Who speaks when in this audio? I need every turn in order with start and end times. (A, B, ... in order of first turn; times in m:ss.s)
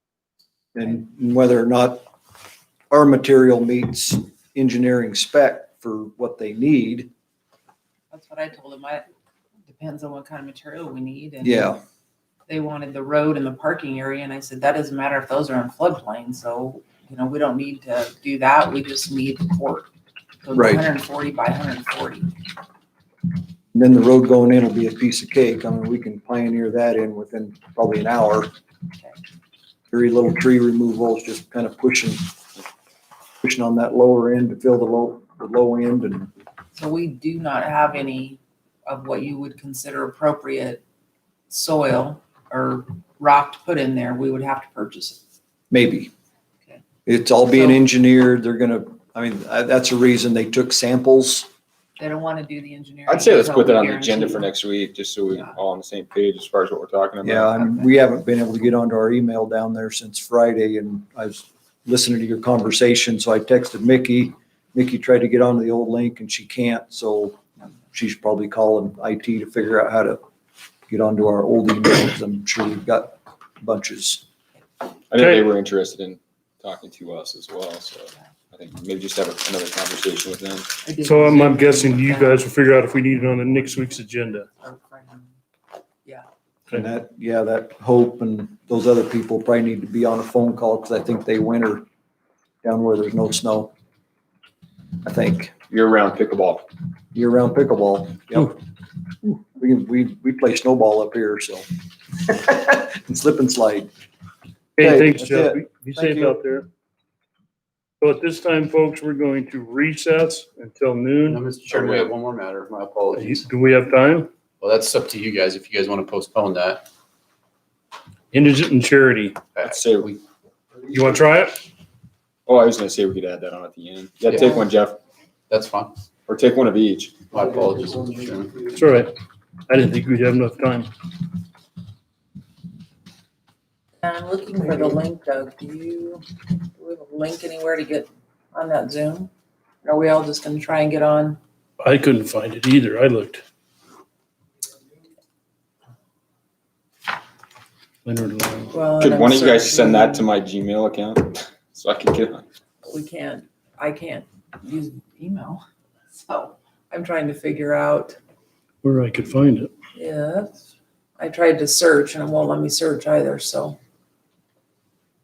0:00.7-0:02.0 A
0:02.9-0:07.1 A
0:08.1-0:09.1 B
0:09.7-0:11.7 B
0:11.4-0:11.8 A
0:12.5-0:19.9 B
0:20.4-0:22.3 B
0:20.5-0:20.8 A
0:23.7-0:28.5 A
0:29.9-0:32.3 A
0:33.4-0:36.3 A
0:36.8-0:40.8 B
0:41.5-0:45.2 B
0:45.7-0:46.1 A
0:47.0-0:51.5 A
0:47.5-0:47.8 B
0:52.0-0:54.5 B
0:53.1-0:57.5 C
0:57.2-1:10.2 A
0:57.6-0:57.9 B
1:10.9-1:14.2 A
1:15.1-1:20.7 C
1:15.2-1:15.4 D
1:20.8-1:22.5 B
1:21.0-1:24.5 D
1:24.6-1:25.3 B
1:26.7-1:31.8 A
1:32.6-1:33.7 A
1:35.0-1:35.5 A
1:35.7-1:36.6 C
1:37.1-1:38.6 A
1:39.2-1:41.6 A
1:42.3-1:43.9 A
1:44.8-1:46.7 D
1:44.8-1:46.4 A
1:48.0-1:51.4 D
1:51.2-1:53.4 E
1:51.7-1:52.1 C
1:53.1-1:54.3 D
1:54.6-1:56.8 E
1:58.3-1:59.4 D
1:59.5-2:00.2 E
1:59.6-2:00.1 C
2:00.9-2:01.5 D
2:02.5-2:05.0 C
2:04.3-2:04.6 E
2:05.5-2:05.9 E
2:06.3-2:07.2 C
2:07.3-2:08.7 E
2:08.7-2:09.1 D
2:09.7-2:10.9 D
2:14.0-2:16.2 B
2:16.8-2:19.3 B
2:19.8-2:21.4 B
2:21.8-2:23.4 D
2:28.0-2:28.7 D
2:28.7-2:30.3 B
2:29.0-2:32.4 C
2:32.8-2:35.6 B
2:36.1-2:38.2 B
2:38.8-2:39.7 D
2:39.9-2:40.6 B
2:41.2-2:43.8 B